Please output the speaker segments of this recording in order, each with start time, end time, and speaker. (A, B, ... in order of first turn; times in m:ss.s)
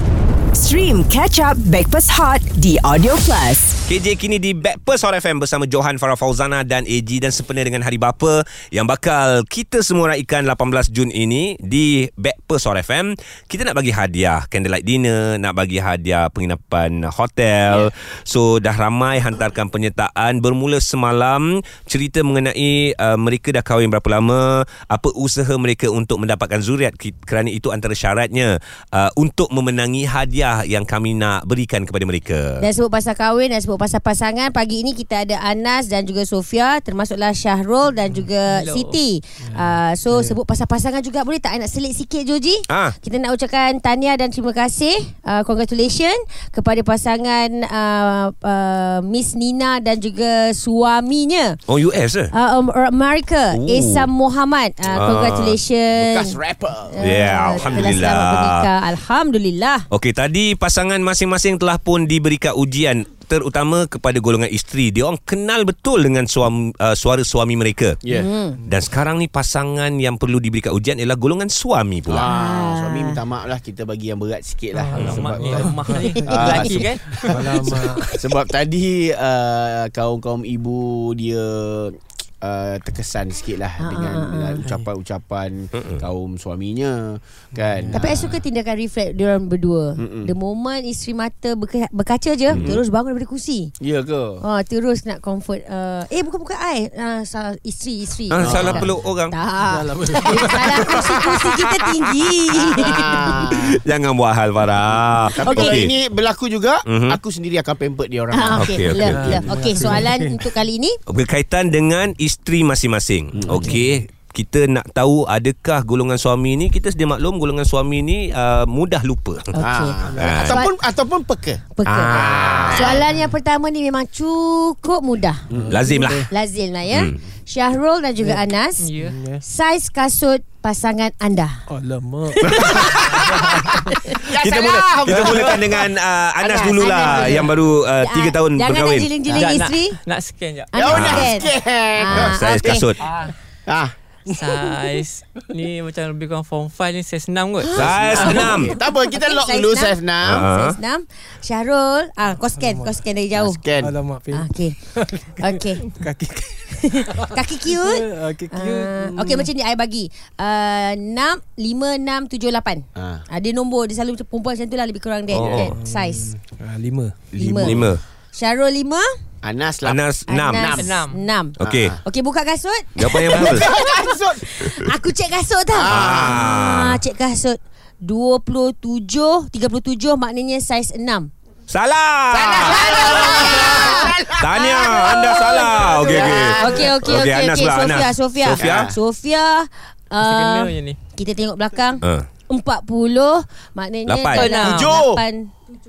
0:00.5-0:03.8 A
0:03.9-0:32.6 B
0:32.6-0:51.6 C
0:38.4-0:39.0 D
0:39.4-0:40.4 E
0:42.7-0:42.9 B
0:51.7-0:52.3 B
0:52.3-0:56.4 C
0:53.5-0:54.1 B
0:54.9-0:55.6 B
0:56.0-0:57.0 F
0:56.9-0:59.8 C
0:57.0-0:58.7 B
0:57.6-0:57.9 F
0:59.9-1:08.0 B
1:08.0-1:08.3 F
1:08.1-1:08.6 C
1:08.7-1:12.3 B
1:12.1-1:17.6 F
1:12.3-1:13.2 C
1:14.8-1:17.8 D
1:14.9-1:18.1 E
1:18.1-1:28.3 F
1:23.8-1:24.6 C
1:25.8-1:26.0 B
1:27.6-1:28.0 E
1:27.9-1:33.7 C
1:30.0-1:30.3 F
1:32.5-1:32.8 B
1:32.5-1:32.8 F
1:33.8-1:34.4 F
1:34.4-1:43.3 C
1:38.3-1:39.3 B
1:38.4-1:38.9 F
1:39.6-1:41.3 E
1:42.7-1:43.8 F
1:43.5-1:45.9 B
1:45.3-1:49.4 F
1:45.4-1:45.9 C
1:46.8-1:47.2 B
1:48.3-1:51.0 C
1:48.5-1:49.4 B
1:49.0-1:50.5 E
1:51.1-1:59.5 B
1:53.3-1:53.8 F
1:59.5-2:00.7 C
1:59.6-2:03.0 F
2:00.0-2:00.4 E
2:00.2-2:00.6 B
2:01.8-2:05.4 C
2:01.9-2:02.8 E
2:02.3-2:03.0 B
2:05.5-2:05.8 F
2:05.5-2:06.3 E
2:05.7-2:06.2 B
2:06.3-2:08.9 C
2:06.9-2:07.2 B
2:08.2-2:08.4 E
2:08.8-2:09.2 D
2:09.0-2:09.4 E
2:09.4-2:11.6 C
2:11.7-2:13.8 E
2:12.4-2:13.2 C
2:12.5-2:13.2 B
2:13.3-2:15.9 F
2:14.2-2:19.1 B
2:16.4-2:17.5 F
2:16.7-2:20.0 C
2:19.3-2:20.7 D
2:20.7-2:22.9 C
2:20.8-2:22.8 F
2:20.9-2:21.3 B
2:22.1-2:23.0 B
2:23.0-2:23.3 D
2:23.7-2:23.9 F
2:24.3-2:28.3 D
2:24.3-2:24.7 E
2:27.6-2:33.6 C
2:27.7-2:30.4 F
2:27.8-2:28.7 B
2:30.2-2:30.8 B
2:32.6-2:33.0 E
2:33.3-2:33.9 F
2:33.8-2:39.5 E
2:34.3-2:34.8 C
2:35.3-2:35.9 C
2:36.7-2:46.3 C
2:43.0-2:43.2 F
2:45.3-2:45.7 B
2:45.7-2:47.3 E
2:47.3-2:47.8 C
2:47.4-2:47.9 F
2:47.6-2:48.0 B
2:48.3-2:49.1 C
2:49.4-2:50.0 F
2:49.8-2:50.8 B
2:50.3-3:01.3 C
2:50.5-2:50.9 F
2:50.8-2:51.2 D
2:51.6-2:52.0 B
2:51.6-2:52.0 F
2:53.0-2:53.7 B
2:53.3-2:54.6 F
2:55.7-2:56.4 F
2:55.9-2:57.0 B
3:01.7-3:08.9 B
3:02.3-3:07.0 F
3:02.7-3:04.1 C
3:06.0-3:15.5 C
3:08.6-3:09.0 F
3:10.2-3:11.0 D
3:12.0-3:12.3 B
3:14.1-3:14.5 B
3:14.3-3:15.0 D
3:14.6-3:15.2 F